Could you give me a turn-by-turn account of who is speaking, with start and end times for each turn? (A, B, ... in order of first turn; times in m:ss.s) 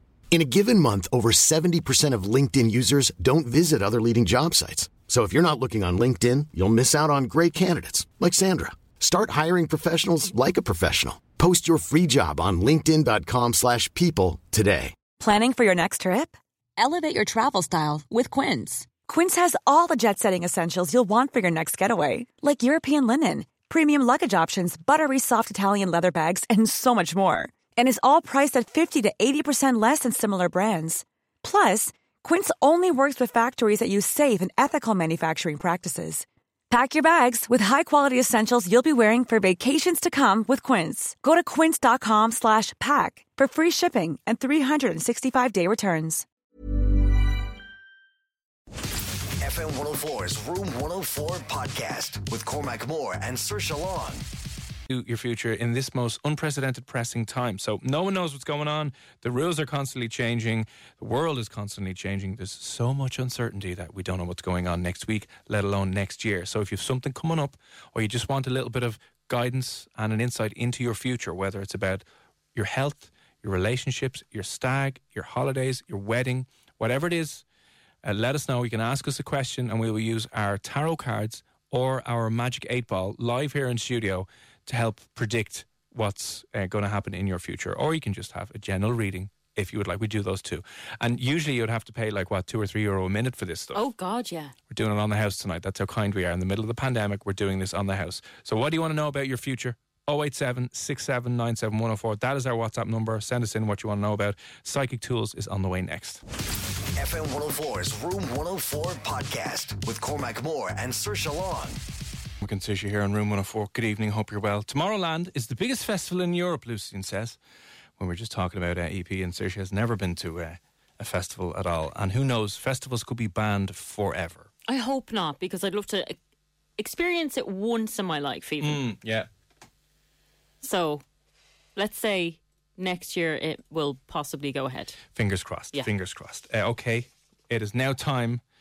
0:00.3-0:15.0 A
0:15.2-0:46.3 B
0:49.4-0:54.3 C
0:54.9-1:12.0 D
1:12.6-1:17.4 D
1:18.0-1:33.9 D
1:33.7-1:34.6 E
1:34.7-1:46.2 D
1:47.0-1:51.8 C
1:52.4-1:57.4 D
1:58.0-2:04.5 D
2:04.7-2:06.2 E
2:06.8-2:08.8 E
2:08.6-2:09.3 D
2:10.6-2:11.0 E
2:11.8-2:15.0 E
2:15.2-2:18.4 D